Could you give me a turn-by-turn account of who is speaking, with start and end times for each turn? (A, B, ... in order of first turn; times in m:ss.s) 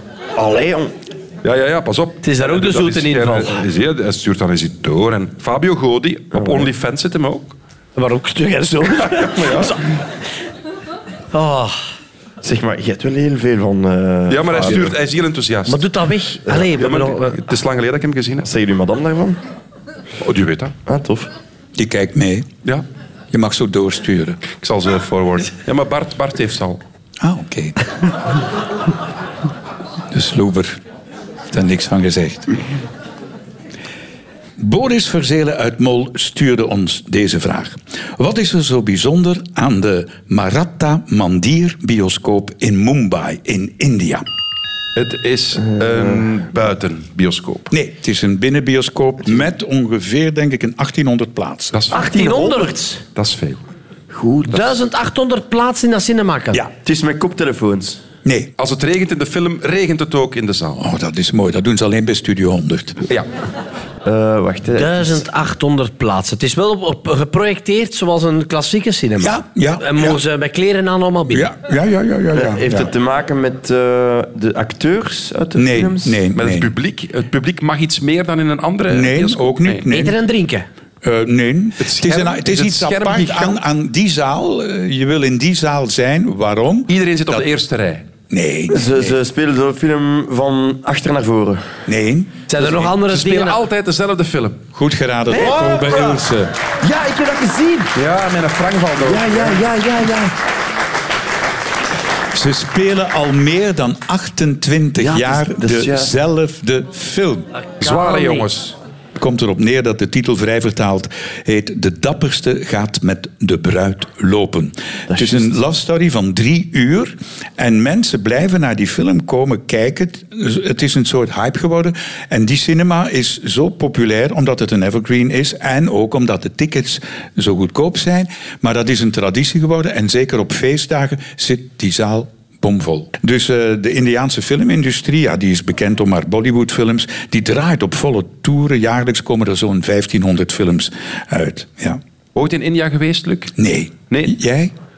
0:00.4-0:00.9 A
0:01.4-0:07.5 B
0:02.2-0:03.6 C
0:06.3-0:06.7 A
0:08.0-0:09.7 C
0:09.2-0:09.8 A
0:11.3-0:11.8 C
0:12.4-0:14.9 A
0:14.3-0:15.9 B
0:15.7-0:17.4 C
0:16.5-0:18.5 B
0:18.4-0:19.4 A
0:20.2-0:20.8 B
0:20.9-0:21.3 A
0:21.8-0:22.5 D
0:23.3-0:24.4 D
0:24.5-0:26.8 B
0:27.2-0:28.1 D
0:30.1-0:30.8 D
0:31.5-0:32.5 D
0:34.6-0:44.2 D
0:45.0-0:47.7 B
0:47.7-0:51.8 D
0:51.7-0:53.6 B
0:51.9-0:53.0 C
0:54.1-0:54.8 A
0:54.5-0:56.6 C
0:56.8-0:58.0 A
0:58.2-0:58.5 D
0:58.6-1:00.8 B
1:00.8-1:03.0 D
1:04.0-1:05.2 A
1:04.8-1:11.5 C
1:09.2-1:10.2 D
1:11.3-1:12.9 D
1:12.4-1:16.2 A
1:15.6-1:16.7 D
1:16.4-1:19.9 B
1:18.9-1:20.2 D
1:19.9-1:20.7 C
1:21.0-1:27.4 D
1:21.8-1:23.6 B
1:26.9-1:28.0 B
1:28.3-1:29.0 D
1:28.7-1:31.7 A
1:31.9-1:32.3 D
1:32.5-1:33.6 C
1:32.6-1:34.6 B
1:34.7-1:36.5 D
1:35.3-1:36.2 A
1:36.8-1:37.9 A
1:38.0-1:39.6 B
1:39.0-1:40.3 A
1:42.3-1:47.5 D
1:45.0-1:46.1 A
1:47.8-1:48.8 B
1:49.2-2:22.0 D
1:55.1-1:55.5 A
2:22.4-2:23.6 B
2:23.6-2:24.7 D
2:24.1-2:24.4 B